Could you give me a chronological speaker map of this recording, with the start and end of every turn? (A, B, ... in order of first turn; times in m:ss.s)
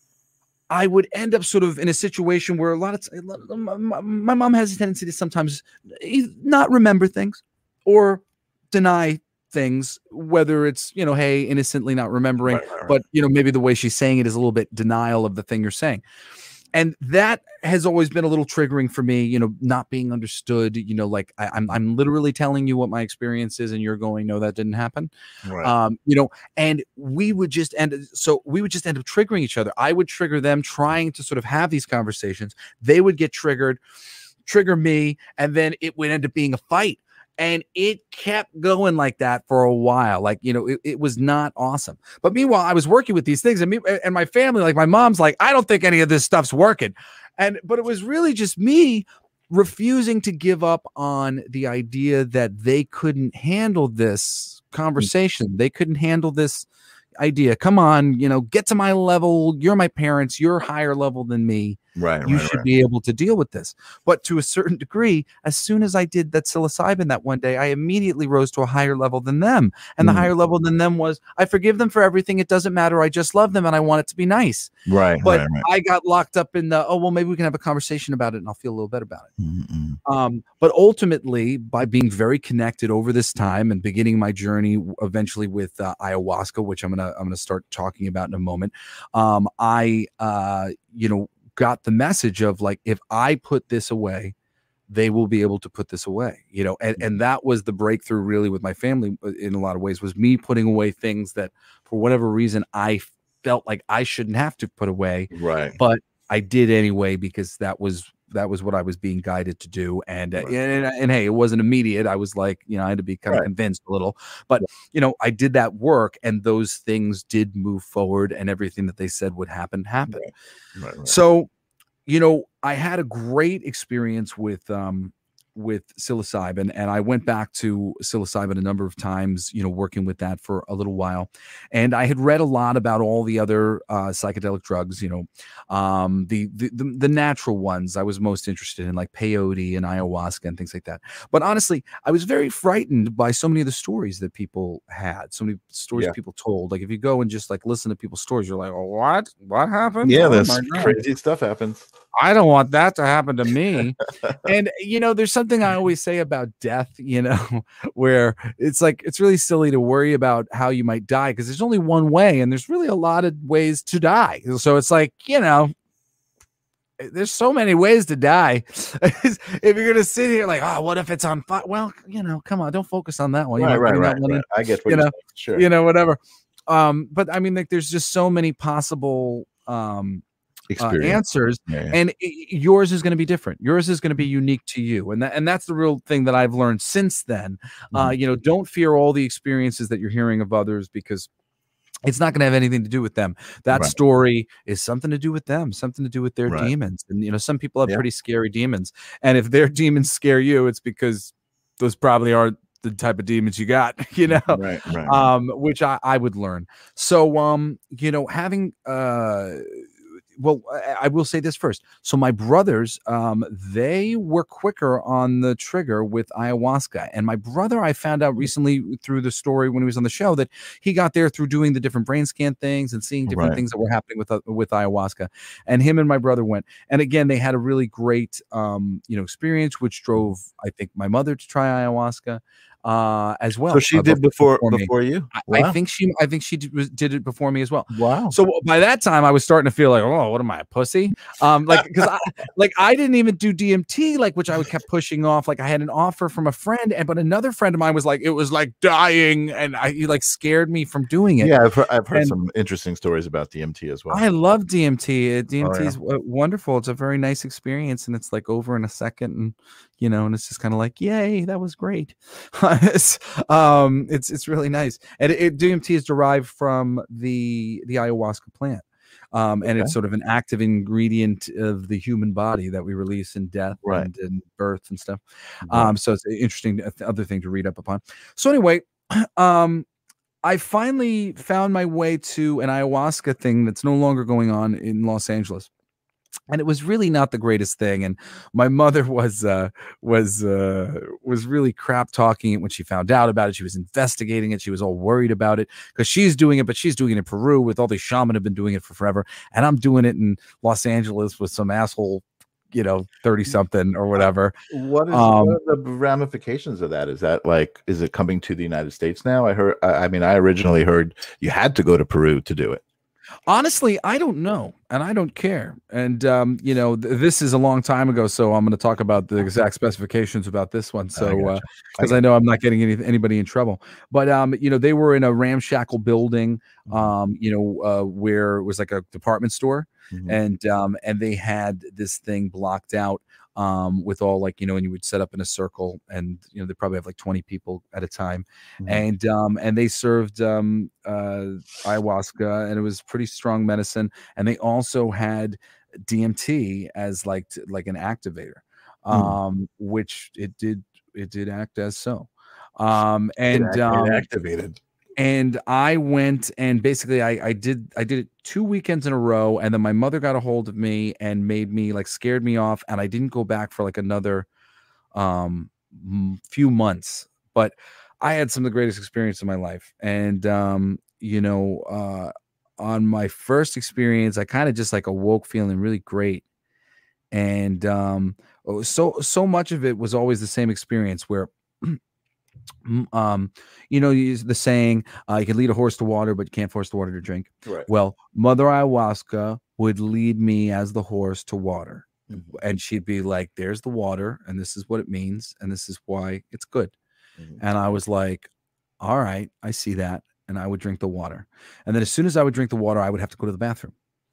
0:00.7-0:16.0 A
0:12.5-0:13.0 B
0:16.7-0:25.1 A
0:25.4-0:25.7 B
0:25.6-0:33.8 A
0:34.4-0:56.7 A
0:57.2-1:19.3 A
1:02.0-1:02.7 B
1:10.0-1:10.3 B
1:14.8-1:15.6 B
1:19.4-1:20.0 B
1:20.0-1:34.3 A
1:34.9-2:00.2 A
1:45.3-1:45.8 B
2:00.1-2:01.1 B
2:01.0-2:01.5 A
2:02.0-2:31.0 A
2:30.0-2:31.9 B
2:32.2-2:45.7 A
2:47.0-3:00.2 A
2:53.6-2:55.7 B
3:00.7-3:02.0 B
3:00.8-3:11.3 A
3:12.0-3:29.8 A
3:13.7-3:14.0 B
3:16.5-3:16.7 B
3:24.3-3:25.3 B
3:30.4-4:11.5 A
3:43.3-3:43.6 B
3:53.7-3:55.8 B
3:57.9-3:58.3 B
4:11.4-4:14.2 B
4:14.1-4:39.8 A
4:15.6-4:16.0 B
4:29.6-4:29.9 B
4:33.8-4:34.1 B
4:35.6-4:35.9 B
4:40.4-4:45.7 A
4:46.5-5:04.5 A
5:04.7-5:12.8 B
5:05.1-5:05.6 A
5:13.5-5:54.3 A
5:21.2-5:22.2 B
5:30.1-5:30.4 B
5:49.1-5:49.4 B
5:53.5-5:54.8 B
5:55.2-6:04.5 A
6:05.1-6:16.4 A
6:17.3-6:22.0 A
6:22.8-6:36.9 A
6:37.6-6:38.5 A
6:39.0-6:43.9 A